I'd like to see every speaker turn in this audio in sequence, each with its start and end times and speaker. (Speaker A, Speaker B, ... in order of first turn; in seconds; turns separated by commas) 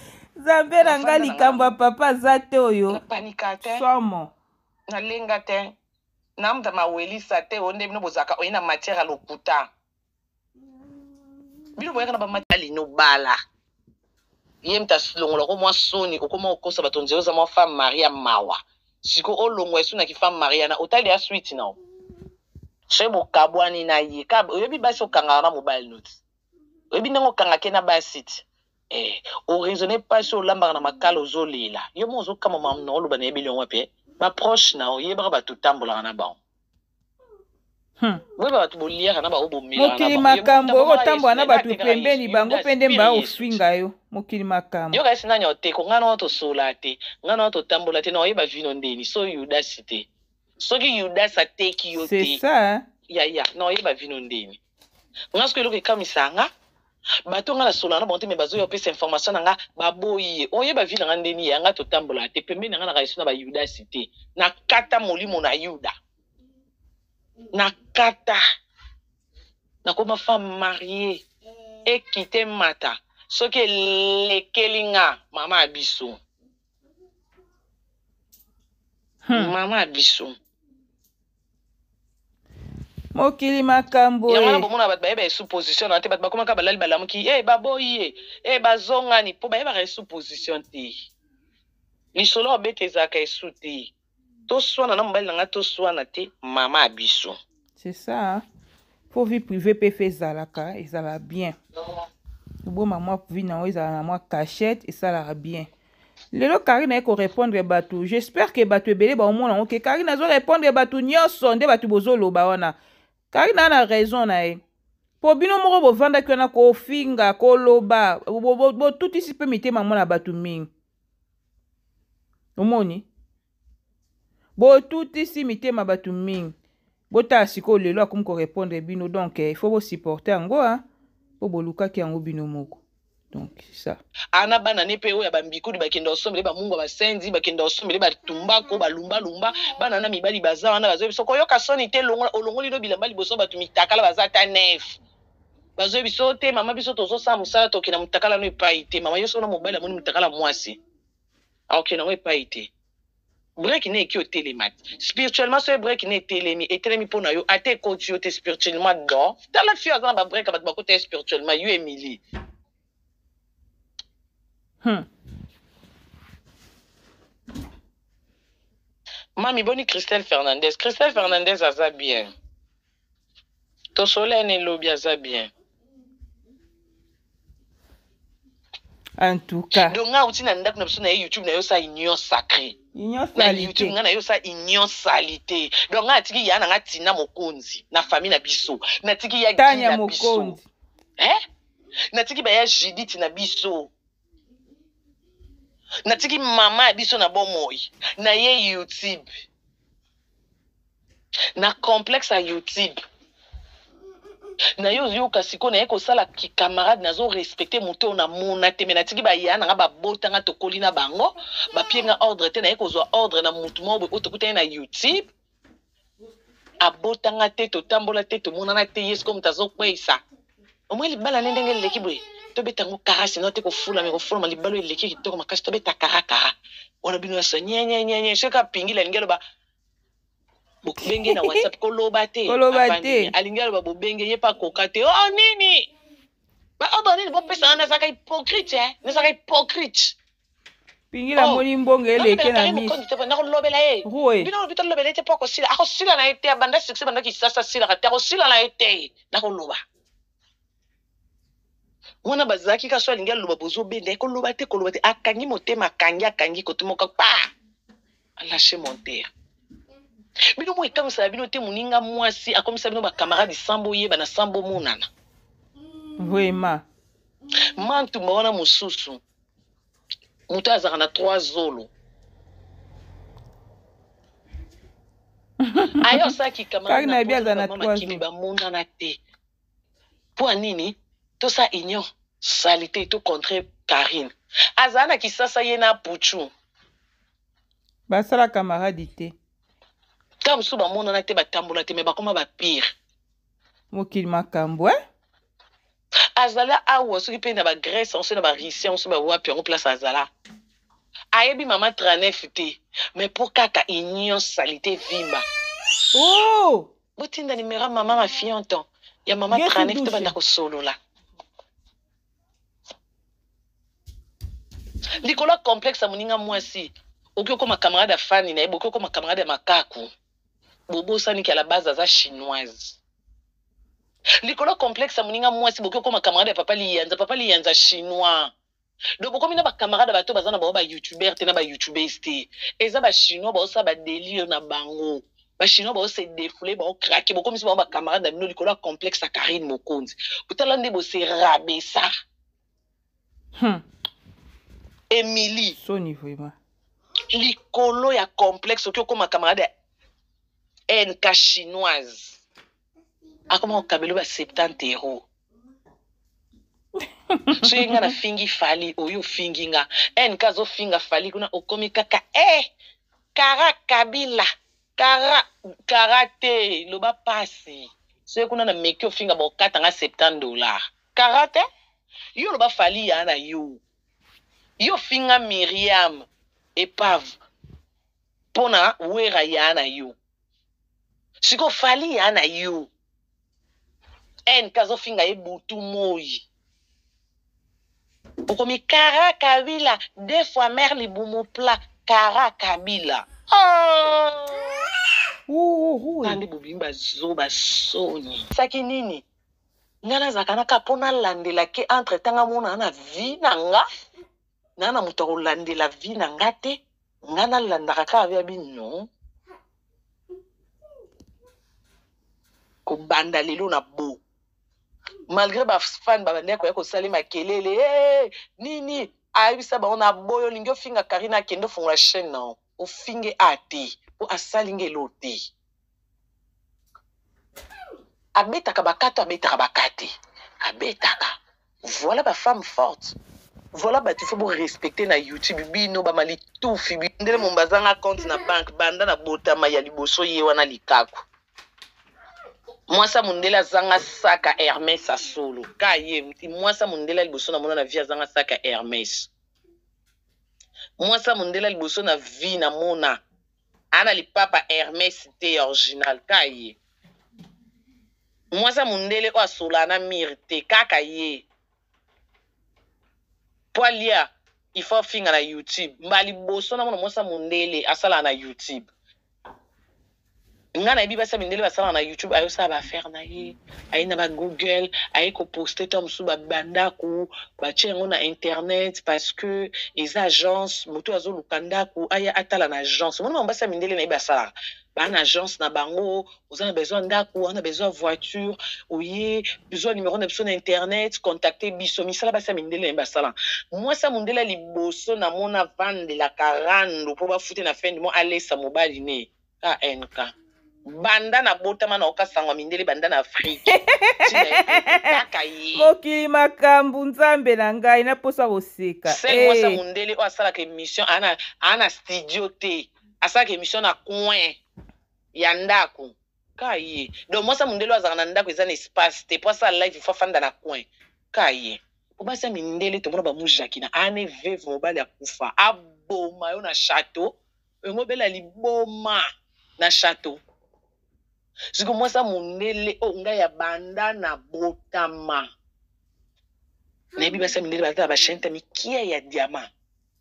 Speaker A: 0.4-3.0, Speaker B: 0.8-1.7, Speaker B: 2.9-3.8, Speaker A: 3.6-4.3, Speaker B: 4.9-5.7, Speaker B: 6.4-9.7, Speaker B: 11.8-13.3, Speaker B: 14.6-21.8, Speaker B: 22.9-26.2, Speaker B: 26.9-36.4, Speaker B: 38.4-43.6, Speaker A: 39.8-45.0, Speaker B: 44.9-50.1, Speaker B: 50.6-52.4, Speaker A: 51.9-52.8, Speaker B: 53.1-54.6, Speaker B: 55.3-56.5, Speaker B: 57.3-65.9, Speaker B: 67.5-68.4, Speaker B: 69.9-71.2, Speaker B: 71.9-76.2, Speaker A: 79.3-79.5, Speaker B: 79.3-80.4, Speaker A: 83.2-84.7, Speaker B: 84.3-91.0, Speaker B: 92.2-93.9, Speaker B: 94.5-97.4, Speaker A: 97.8-98.4, Speaker A: 99.1-101.6, Speaker A: 102.6-105.7, Speaker A: 106.3-112.8, Speaker A: 113.3-114.6, Speaker A: 115.2-120.7, Speaker A: 122.6-123.1, Speaker A: 124.6-126.5, Speaker A: 127.1-130.8, Speaker A: 131.4-134.0, Speaker B: 134.3-145.0, Speaker B: 145.8-150.8, Speaker B: 151.7-152.7, Speaker B: 153.6-162.2, Speaker B: 169.4-172.3, Speaker B: 173.9-175.5, Speaker A: 179.2-180.0, Speaker B: 179.7-182.8, Speaker A: 182.9-183.9, Speaker B: 183.4-190.6, Speaker A: 189.6-190.7, Speaker B: 192.1-193.9, Speaker B: 196.1-199.3, Speaker B: 201.6-203.0, Speaker B: 204.8-215.3, Speaker B: 216.8-220.2, Speaker B: 220.9-229.4, Speaker B: 230.8-235.9, Speaker A: 231.1-231.7, Speaker A: 232.5-233.3, Speaker B: 236.8-240.2, Speaker A: 241.1-243.0, Speaker B: 241.4-241.6, Speaker B: 242.2-249.8, Speaker A: 244.1-244.5, Speaker B: 252.2-257.5, Speaker B: 258.4-259.3, Speaker B: 260.6-265.1, Speaker A: 266.2-266.8, Speaker B: 267.8-269.2, Speaker B: 270.5-271.9, Speaker A: 275.6-276.3, Speaker B: 276.0-279.2, Speaker A: 276.9-278.2, Speaker B: 280.4-286.5, Speaker A: 288.1-289.4, Speaker B: 290.4-292.9, Speaker A: 293.9-295.0, Speaker B: 296.4-300.3, Speaker B: 301.3-305.4, Speaker A: 306.1-306.9, Speaker B: 307.2-310.9, Speaker A: 309.5-310.3, Speaker B: 315.2-320.1, Speaker B: 320.9-323.0, Speaker B: 324.4-328.5, Speaker B: 329.2-342.1, Speaker A: 343.6-343.8, Speaker B: 345.1-345.8, Speaker A: 345.8-346.6, Speaker B: 347.3-349.7, Speaker B: 350.9-352.4, Speaker B: 353.5-355.3, Speaker A: 357.3-358.1, Speaker B: 357.6-362.7, Speaker B: 363.4-364.5, Speaker B: 365.0-371.6, Speaker B: 372.4-373.8, Speaker B: 374.8-376.3, Speaker B: 376.8-377.3, Speaker B: 378.5-380.2, Speaker B: 381.4-382.9, Speaker B: 384.5-386.5, Speaker B: 388.5-394.9, Speaker A: 395.5-396.4, Speaker B: 396.2-399.2, Speaker B: 400.0-403.8, Speaker B: 404.8-409.1, Speaker B: 412.9-414.2, Speaker B: 415.3-425.5, Speaker B: 428.4-430.1, Speaker B: 430.6-431.3, Speaker B: 431.9-433.2, Speaker B: 433.7-441.2, Speaker B: 442.9-449.3, Speaker B: 451.0-453.2, Speaker B: 453.9-456.8, Speaker B: 458.5-461.5, Speaker B: 463.7-468.9, Speaker B: 470.8-500.3, Speaker B: 500.9-505.9, Speaker A: 503.7-505.2, Speaker A: 505.8-509.8, Speaker B: 509.1-514.6, Speaker B: 515.4-527.3, Speaker B: 527.9-529.2, Speaker B: 529.8-530.4, Speaker B: 531.8-535.5, Speaker B: 537.2-539.7